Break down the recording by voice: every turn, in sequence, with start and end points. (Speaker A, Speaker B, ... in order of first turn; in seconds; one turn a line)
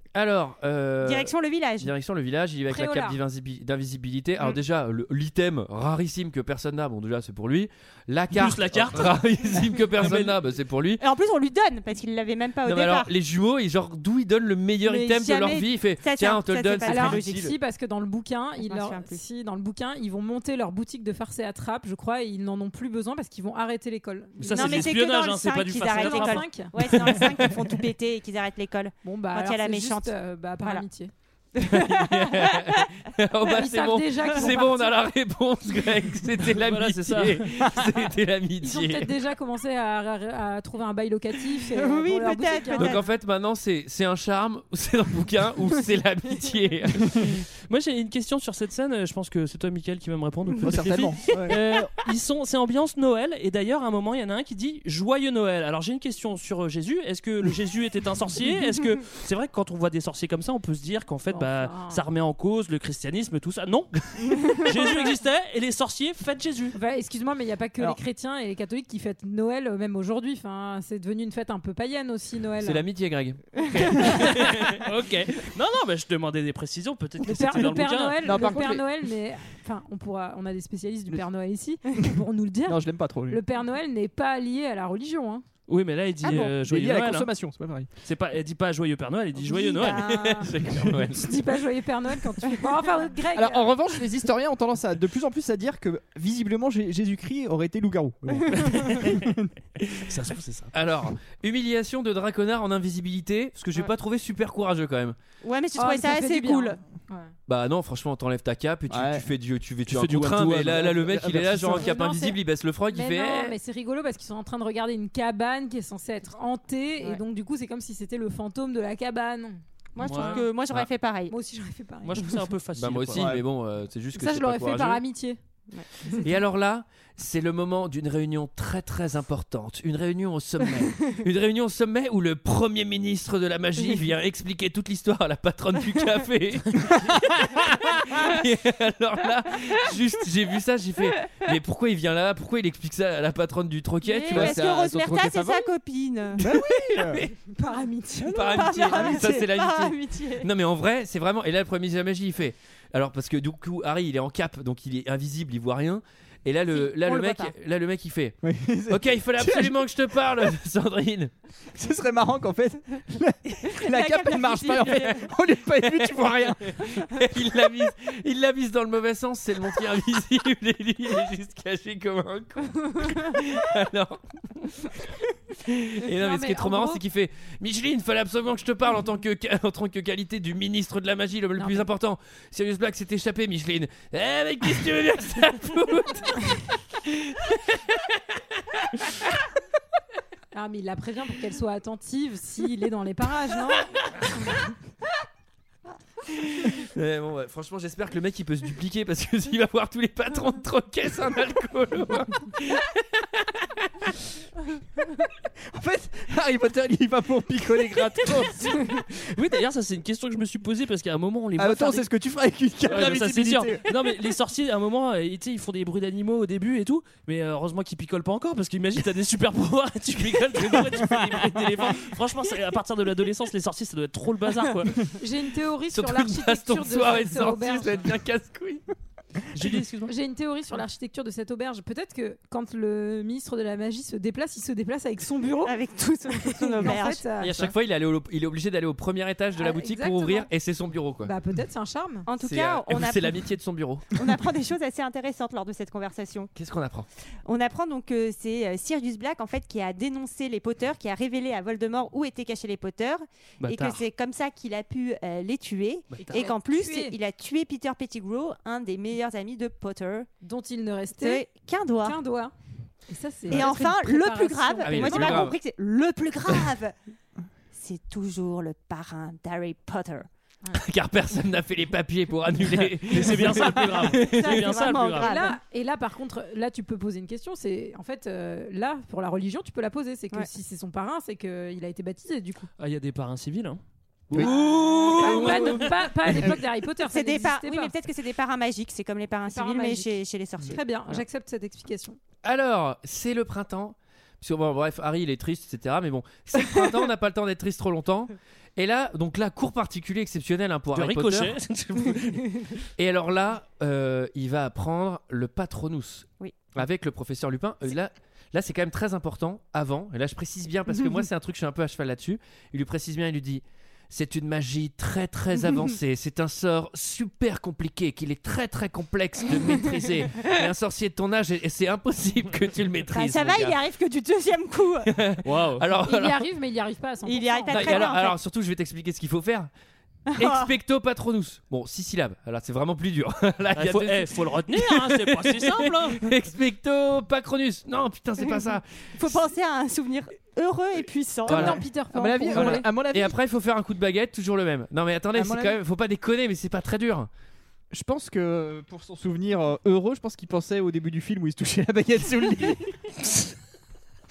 Speaker A: 0.1-11.0
Speaker B: 1.0-1.9
Speaker C: 2.7-3.2
Speaker D: 8.3-10.3
Speaker B: 11.0-13.1
Speaker A: 12.7-17.5
Speaker B: 14.9-17.5
Speaker C: 16.9-25.0
Speaker B: 18.6-19.2
Speaker D: 24.4-26.5
Speaker B: 24.5-30.9
Speaker C: 25.9-27.4
Speaker C: 29.0-31.1
Speaker A: 31.6-39.1
Speaker C: 33.4-35.0
Speaker D: 36.4-37.5
Speaker C: 38.6-43.0
Speaker B: 41.7-43.0
Speaker A: 42.8-47.3
Speaker D: 47.7-66.8
Speaker E: 50.6-51.6
Speaker C: 61.3-62.0
Speaker C: 64.5-65.0
Speaker C: 66.8-72.9
Speaker A: 72.6-74.4
Speaker D: 73.7-78.5
Speaker C: 77.2-85.5
Speaker E: 78.2-78.9
Speaker E: 82.7-83.4
Speaker D: 85.7-87.3
Speaker E: 86.2-87.9
Speaker D: 88.0-90.4
Speaker B: 89.5-90.5
Speaker C: 89.5-90.5
Speaker A: 90.4-91.4
Speaker C: 91.1-93.7
Speaker E: 93.3-99.5
Speaker D: 98.5-99.3
Speaker D: 100.1-100.7
Speaker A: 100.7-105.2
Speaker B: 105.4-106.8
Speaker C: 105.8-107.3
Speaker A: 107.5-113.5
Speaker E: 108.9-109.2
Speaker D: 109.9-110.9
Speaker E: 110.0-111.9
Speaker C: 111.7-112.4
Speaker C: 112.9-120.5
Speaker B: 120.0-121.4
Speaker D: 120.0-120.5
Speaker C: 121.3-122.4
Speaker D: 122.0-123.3
Speaker A: 122.8-125.0
Speaker E: 123.1-123.4
Speaker C: 124.1-125.4
Speaker A: 126.2-144.6
Speaker B: 144.0-146.4
Speaker E: 144.3-145.7
Speaker E: 146.3-147.2
Speaker A: 146.4-147.3
Speaker C: 147.4-149.2
Speaker A: 148.2-158.4
Speaker B: 148.4-150.5
Speaker B: 156.7-157.5
Speaker E: 158.4-159.8
Speaker A: 158.9-161.3
Speaker E: 161.7-166.8
Speaker B: 163.8-165.3
Speaker A: 165.8-174.9
Speaker A: 175.6-186.6
Speaker C: 176.1-177.0
Speaker C: 181.6-181.9
Speaker A: 187.1-187.4
Speaker C: 190.5-194.0
Speaker A: 196.5-203.7
Speaker E: 205.7-209.0
Speaker D: 209.2-212.1
Speaker E: 211.6-214.0
Speaker D: 212.9-225.0
Speaker E: 220.9-221.6
Speaker C: 225.2-228.1
Speaker A: 225.9-228.8
Speaker D: 229.5-230.1
Speaker C: 230.1-235.8
Speaker B: 235.6-237.3
Speaker C: 236.3-237.7
Speaker A: 237.4-241.3
Speaker C: 239.6-240.5
Speaker C: 241.2-242.3
Speaker B: 242.3-243.5
Speaker A: 242.4-244.1
Speaker B: 244.1-246.5
Speaker A: 246.6-247.1
Speaker B: 247.4-260.3
Speaker D: 253.6-254.0
Speaker D: 256.1-256.4
Speaker C: 256.2-257.1
Speaker C: 260.4-261.5
Speaker B: 261.1-262.2
Speaker C: 262.0-262.5
Speaker C: 263.1-265.5
Speaker B: 263.5-266.9
Speaker A: 264.8-265.6
Speaker B: 267.7-270.3
Speaker A: 270.7-274.7
Speaker D: 273.1-275.3
Speaker B: 274.2-275.6
Speaker C: 274.9-282.7
Speaker D: 282.8-285.9
Speaker A: 284.4-285.8
Speaker C: 284.9-287.9
Speaker B: 287.0-290.8
Speaker C: 289.4-290.1
Speaker C: 290.6-292.2
Speaker A: 292.4-301.5
Speaker D: 300.9-302.6
Speaker A: 303.0-323.8
Speaker B: 323.1-325.1
Speaker A: 325.1-326.4
Speaker D: 325.4-325.9
Speaker C: 326.0-328.2
Speaker B: 327.2-328.4
Speaker A: 327.7-329.7
Speaker B: 330.3-330.7
Speaker A: 330.4-339.4
Speaker D: 333.8-336.3
Speaker B: 338.4-341.9
Speaker A: 341.5-341.8
Speaker C: 341.5-342.8
Speaker E: 342.1-343.4
Speaker A: 342.5-347.3
Speaker E: 345.3-345.8
Speaker E: 347.9-353.3